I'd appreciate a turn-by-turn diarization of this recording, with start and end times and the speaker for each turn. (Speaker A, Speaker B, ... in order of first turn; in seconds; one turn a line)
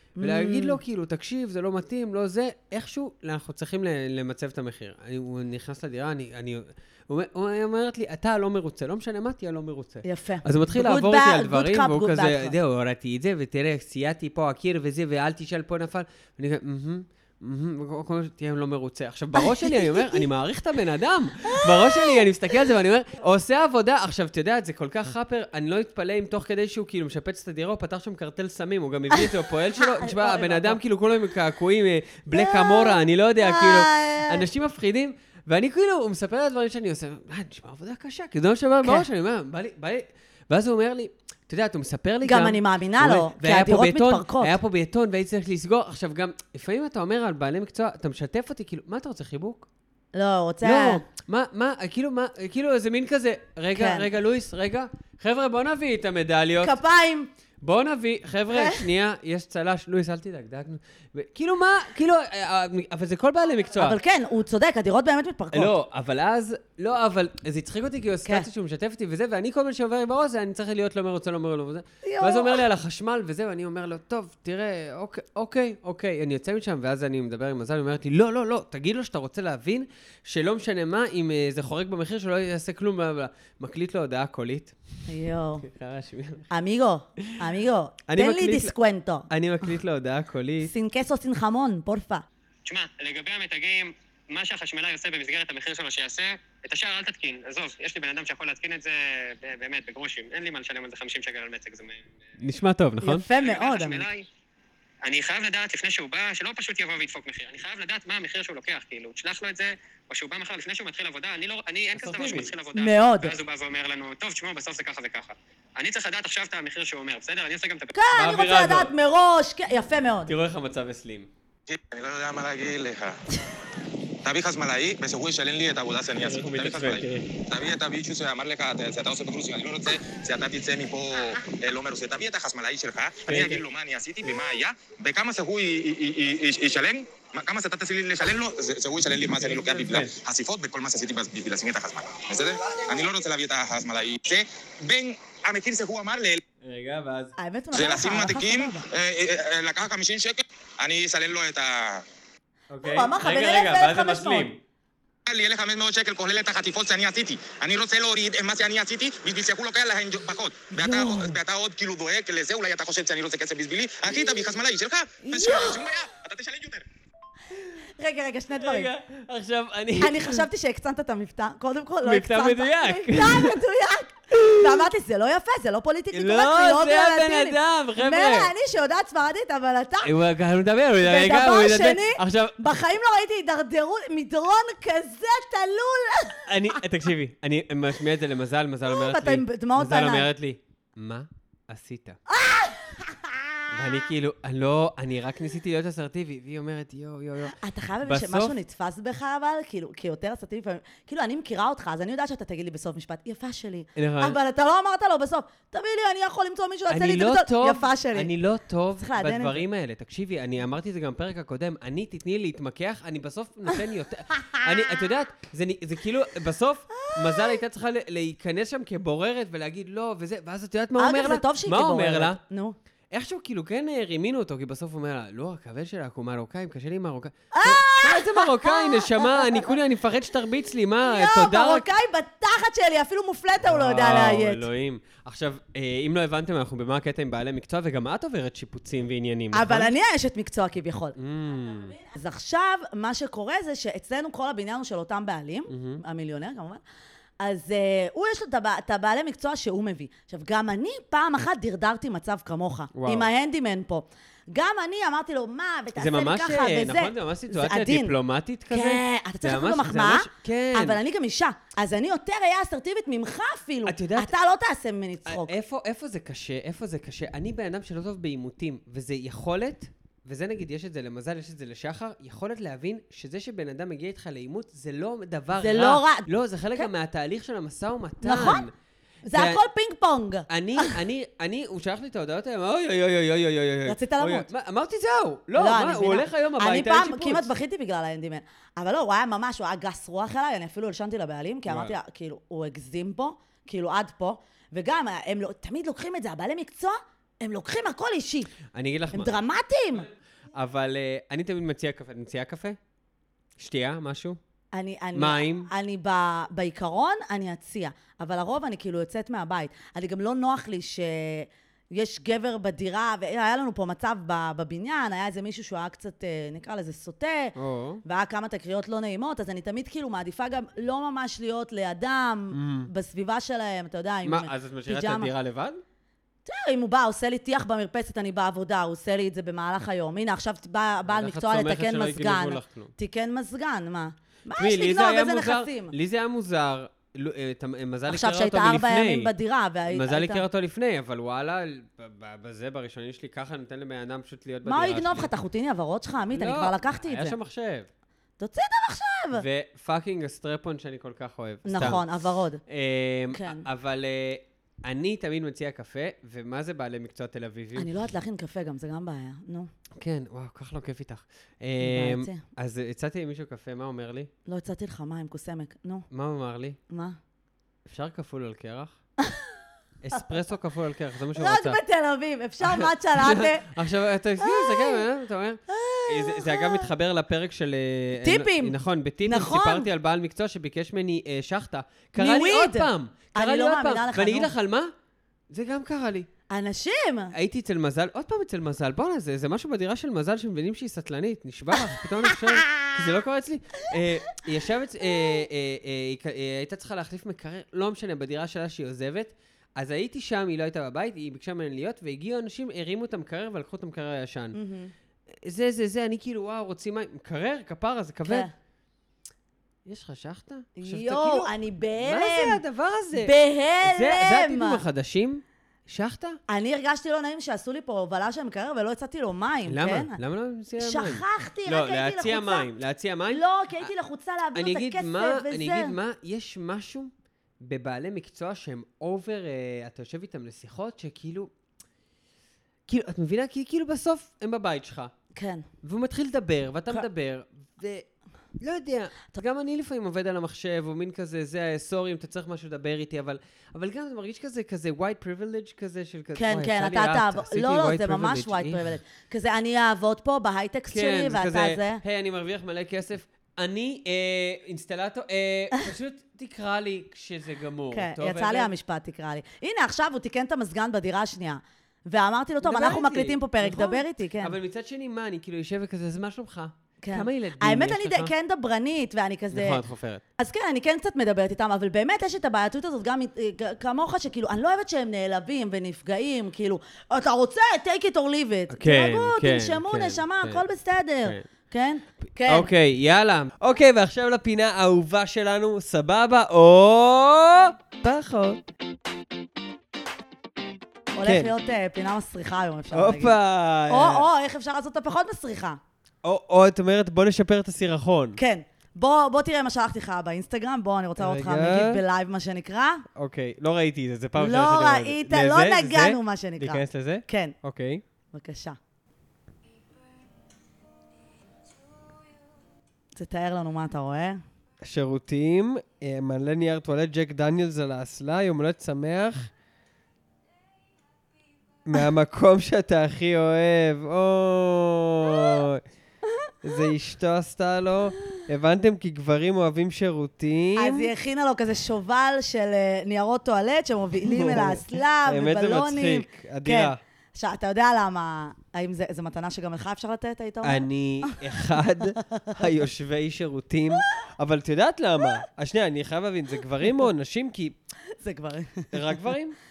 Speaker A: 0.2-0.8
Speaker B: 0.2-49.7
Speaker A: 10.0-12.6
Speaker A: 19.5-20.2
Speaker A: 21.5-22.2
Speaker A: 29.8-30.8
Speaker A: 32.3-34.4
Speaker A: 42.2-44.5
Speaker A: 50.1-51.0
Speaker B: 50.6-56.8
Speaker A: 53.7-54.1
Speaker A: 56.6-57.3
Speaker B: 57.6-64.0
Speaker A: 58.5-58.8
Speaker A: 63.8-65.7
Speaker B: 65.5-84.8
Speaker A: 72.0-72.7
Speaker A: 85.1-85.7
Speaker B: 85.6-86.5
Speaker A: 86.5-89.3
Speaker B: 88.1-88.7
Speaker B: 89.3-90.7
Speaker A: 90.6-92.2
Speaker C: 92.7-102.1
Speaker B: 102.4-103.3
Speaker A: 103.0-104.1
Speaker C: 103.4-104.3
Speaker C: 105.0-117.9
Speaker B: 112.0-112.5
Speaker A: 112.7-113.3
Speaker A: 118.0-120.3
Speaker B: 118.1-118.9
Speaker B: 120.3-121.3
Speaker D: 121.7-123.2
Speaker D: 124.2-146.4
Speaker B: 126.2-127.4
Speaker B: 133.3-133.7
Speaker B: 139.3-140.2
Speaker B: 146.6-147.3
Speaker A: 147.4-148.8
Speaker D: 147.7-152.1
Speaker B: 152.7-154.6
Speaker A: 152.8-154.5
Speaker D: 155.3-166.9
Speaker A: 160.9-161.3
Speaker A: 165.2-165.8
Speaker A: 167.8-168.9
Speaker B: 168.6-170.5
Speaker A: 170.0-180.1
Speaker B: 172.0-173.6
Speaker B: 174.3-174.9
Speaker B: 176.1-178.5
Speaker B: 180.0-182.6
Speaker A: 181.0-186.8
Speaker B: 186.5-192.2
Speaker A: 188.9-190.3
Speaker A: 192.3-193.7
Speaker B: 193.7-198.6
Speaker A: 197.5-208.3
Speaker B: 204.0-204.4
Speaker B: 206.9-222.4
Speaker A: 209.0-209.6
Speaker A: 217.0-217.3
Speaker A: 221.0-222.8
Speaker B: 223.1-231.9
Speaker A: 227.5-229.7
Speaker A: 231.1-234.7
Speaker B: 233.6-239.9
Speaker A: 239.5-241.2
Speaker B: 241.2-242.0
Speaker A: 241.9-246.8
Speaker B: 245.7-246.0
Speaker A: 247.4-258.1
Speaker B: 252.9-253.3
Speaker B: 256.0-261.0
Speaker A: 258.7-265.6
Speaker B: 263.9-264.3
Speaker B: 265.3-278.7
Speaker A: 275.6-276.9
Speaker A: 278.2-278.7
Speaker A: 279.3-281.0
Speaker B: 279.3-279.6
Speaker B: 280.5-287.5
Speaker A: 283.9-284.5
Speaker A: 285.6-298.5
Speaker B: 291.7-292.0
Speaker B: 298.7-299.3
Speaker A: 299.1-300.1
Speaker B: 300.6-302.8
Speaker B: 303.6-304.4
Speaker A: 304.7-325.3
Speaker B: 305.1-305.7
Speaker B: 317.6-318.0
Speaker B: 322.5-322.9
Speaker B: 324.2-325.8
Speaker A: 326.4-335.9
Speaker B: 331.1-332.9
Speaker B: 334.6-339.3
Speaker A: 338.1-340.4
Speaker B: 339.9-345.3
Speaker A: 344.6-347.4
Speaker B: 346.3-347.9
Speaker A: 348.4-349.4
Speaker B: 349.3-352.1
Speaker A: 351.6-352.6
Speaker B: 352.7-357.9
Speaker A: 353.3-353.6
Speaker A: 357.8-359.7
Speaker B: 359.9-364.3
Speaker A: 361.8-362.4
Speaker A: 364.5-366.1
Speaker B: 366.1-366.8
Speaker A: 366.9-367.2
Speaker B: 367.9-368.9
Speaker A: 369.2-369.5
Speaker B: 370.0-371.8
Speaker A: 371.4-373.7
Speaker B: 372.6-384.9
Speaker A: 374.4-375.1
Speaker A: 375.7-376.9
Speaker A: 378.2-379.9
Speaker A: 382.2-384.5
Speaker B: 385.5-386.3
Speaker A: 386.5-387.3
Speaker B: 387.3-404.6
Speaker A: 404.5-404.9
Speaker B: 405.3-408.5
Speaker A: 408.3-408.5
Speaker B: 409.9-416.4
Speaker A: 410.8-412.6
Speaker A: 413.1-414.8
Speaker A: 416.5-420.2
Speaker B: 419.7-423.9
Speaker A: 420.8-422.7
Speaker A: 423.3-426.0
Speaker B: 424.6-431.5
Speaker B: 432.9-435.1
Speaker A: 435.4-435.7
Speaker B: 435.8-438.1
Speaker B: 438.6-448.9
Speaker A: 446.4-452.0
Speaker B: 450.9-458.7
Speaker A: 457.9-464.6
Speaker B: 462.6-468.3
Speaker A: 467.0-469.8
Speaker B: 469.5-470.2
Speaker A: 470.4-482.7
Speaker B: 478.7-480.6
Speaker B: 482.5-488.6
Speaker A: 491.1-493.4
Speaker B: 491.2-491.5
Speaker B: 492.9-494.3
Speaker A: 493.9-495.8
Speaker B: 496.2-498.4
Speaker A: 498.4-503.0
Speaker B: 501.2-502.0
Speaker B: 503.1-508.0
Speaker A: 504.4-507.6
Speaker A: 508.3-508.8
Speaker A: 513.2-514.4
Speaker B: 514.8-519.5
Speaker B: 521.9-525.8
Speaker B: 526.6-531.1
Speaker A: 530.8-541.4
Speaker B: 534.2-537.0
Speaker B: 540.6-547.8
Speaker A: 542.2-542.6
Speaker A: 548.2-548.9
Speaker B: 548.9-549.6